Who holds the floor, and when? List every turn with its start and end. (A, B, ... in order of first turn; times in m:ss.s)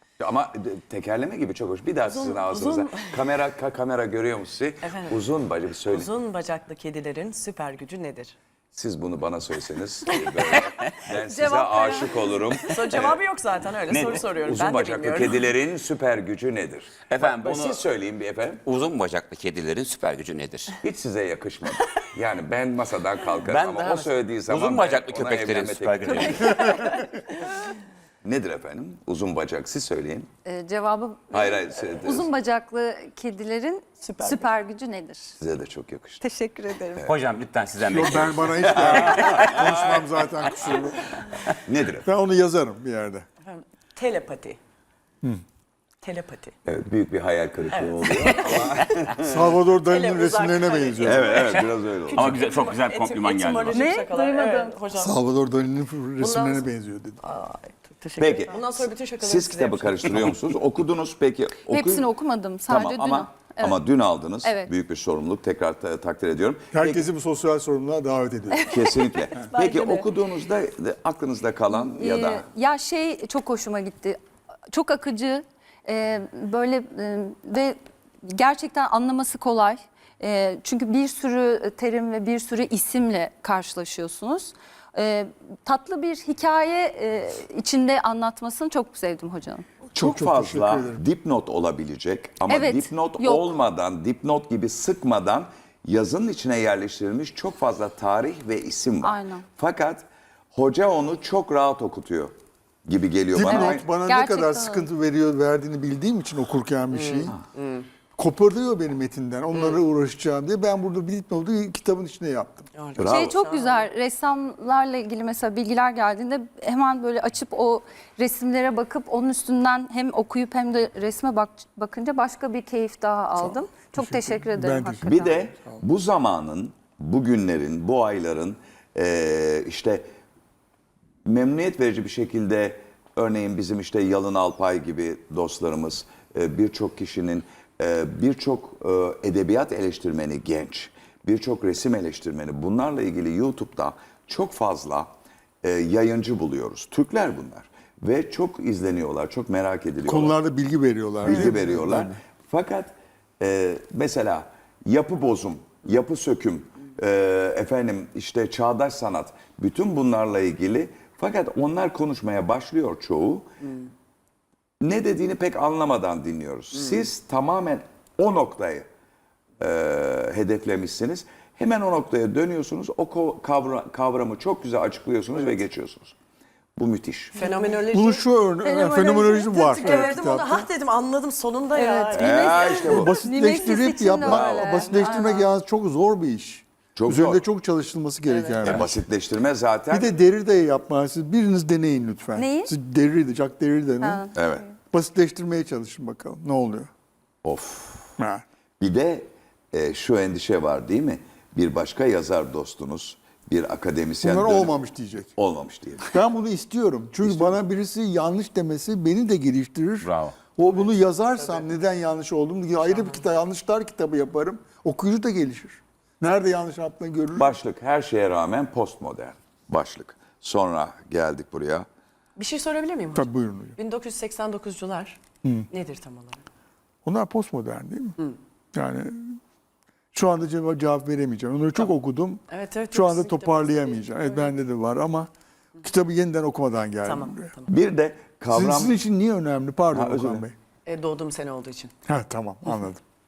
0:00.2-0:06.1 A
0:02.1-0:03.2 B
0:04.8-0:05.2 B
0:05.9-0:08.4 B
0:08.7-0:13.2 A
0:10.1-0:10.7 B
0:11.2-0:12.3 C
0:12.7-0:15.4 B
0:13.9-0:14.3 D
0:14.1-0:18.6 A
0:17.1-0:17.8 D
0:18.6-0:20.7 D
0:20.8-0:26.7 A
0:23.4-0:26.8 D
0:26.1-0:27.0 C
0:28.2-0:30.3 A
0:30.4-0:35.4 C
0:31.3-0:32.3 A
0:34.0-0:34.5 B
0:35.4-0:36.2 A
0:36.2-0:37.1 C
0:37.1-0:39.7 D
0:37.8-0:41.3 E
0:39.5-0:40.0 A
0:41.6-0:42.1 A
0:42.0-0:43.3 E
0:43.4-0:44.6 B
0:46.0-0:46.5 B
0:46.7-0:49.2 A
0:47.7-0:49.0 B
0:49.2-0:51.4 E
0:49.9-0:55.2 B
0:51.0-0:52.3 A
0:52.1-0:53.9 D
0:53.7-0:54.8 C
0:55.0-0:57.2 E
0:56.2-0:56.7 B
0:57.2-1:00.4 B
0:58.2-0:58.6 A
0:59.2-1:02.1 A
1:01.7-1:03.8 C
1:02.7-1:07.1 A
1:04.4-1:04.7 C
1:06.7-1:08.7 E
1:08.6-1:09.2 C
1:08.7-1:12.5 A
1:09.4-1:10.1 B
1:11.7-1:29.6 C
1:29.9-1:42.3 A
1:30.0-1:31.0 E
1:32.5-1:33.5 C
1:39.0-1:39.4 C
1:42.8-1:43.9 A
1:43.3-1:47.4 E
1:43.5-1:44.9 C
1:46.9-1:47.9 B
1:48.2-1:52.7 E
1:52.8-1:53.9 B
1:53.0-1:53.4 A
1:53.1-2:05.4 C
2:03.4-2:05.8 E
2:05.0-2:10.1 A
2:11.3-2:25.1 A
2:25.6-2:30.4 A
2:30.1-2:32.2 E
2:31.2-2:43.5 A
2:44.8-2:48.9 A
2:49.6-2:56.2 A
2:56.8-2:57.4 A
2:57.4-2:58.2 B
2:57.9-3:00.7 E
2:58.6-3:00.1 C
2:59.6-3:02.9 B
3:01.7-3:05.4 C
3:02.1-3:03.1 A
3:02.9-3:09.0 E
3:04.2-3:05.4 B
3:04.3-3:04.6 A
3:07.0-3:07.4 A
3:08.3-3:08.8 B
3:08.6-3:10.1 A
3:09.9-3:14.3 E
3:12.4-3:12.7 C
3:14.0-3:14.7 C
3:14.3-3:14.7 A
3:14.9-3:16.9 E
3:17.4-3:18.2 A
3:18.2-3:18.4 E
3:18.8-3:24.8 A
3:24.2-3:25.3 E
3:25.4-3:26.2 A
3:26.0-3:37.6 E
3:27.2-3:27.6 A
3:30.0-3:30.3 D
3:32.8-3:33.2 B
3:37.4-3:41.9 A
3:42.4-3:45.2 B
3:43.2-3:43.8 E
3:45.7-3:46.5 B
3:47.0-3:48.2 E
3:48.7-3:49.4 E
3:50.1-3:55.3 E
3:52.5-3:54.6 B
3:55.8-3:57.5 E
3:57.0-3:57.7 B
3:57.7-3:59.0 A
3:58.5-4:00.6 E
3:59.9-4:00.4 A
4:00.9-4:01.9 B
4:02.1-4:03.0 E